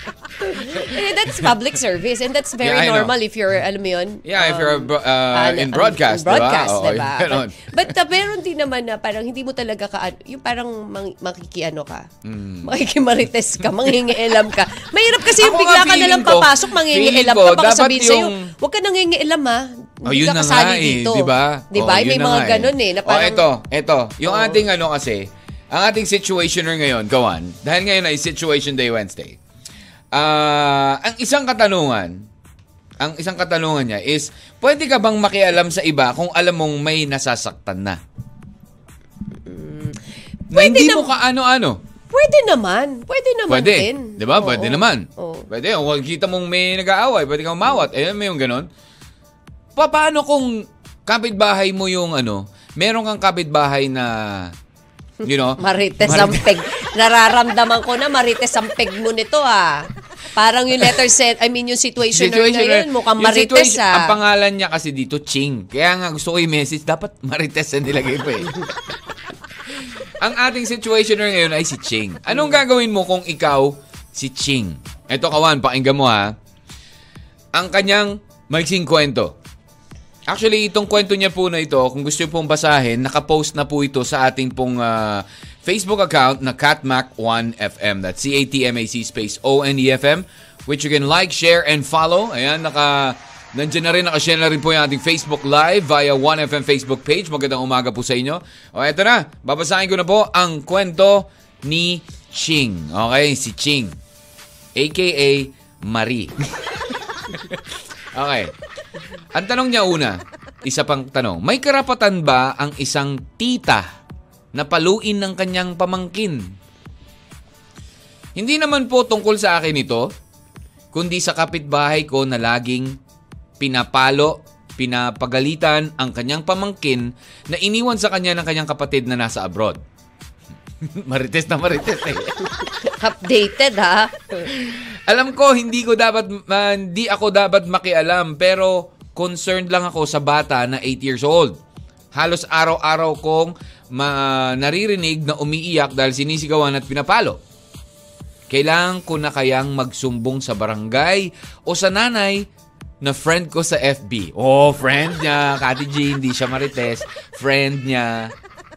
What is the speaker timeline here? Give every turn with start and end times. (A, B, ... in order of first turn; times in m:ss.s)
0:00.4-0:12.1 A
0:02.6-0:03.1 B
0:04.2-0:07.9 B
0:12.2-0:12.7 B
0:12.6-0:23.4 A
0:15.2-0:18.5 B
0:20.0-0:29.4 B
0:24.2-0:24.6 A
0:30.1-0:32.2 B
0:33.0-0:38.0 B
0:39.4-0:40.0 A
0:40.5-0:41.1 A
0:40.5-0:41.8 B
0:42.1-0:45.5 A
0:43.5-0:48.7 B
0:49.8-0:54.5 B
0:55.2-0:56.6 B
0:55.6-1:04.1 A
1:02.1-1:08.8 B
1:09.7-1:16.3 B
1:17.5-1:19.4 B
1:20.3-1:44.0 B
1:44.8-1:47.6 B
1:48.1-1:48.5 B
1:49.3-1:53.8 B
1:54.5-1:56.5 B
1:58.4-2:00.1 B
2:00.9-2:03.0 B
2:03.6-2:09.8 B
2:10.8-2:12.7 B
2:12.8-2:14.4 A
2:14.5-2:21.6 B
2:22.1-2:27.4 B
2:28.5-2:32.5 B
2:33.0-2:38.3 B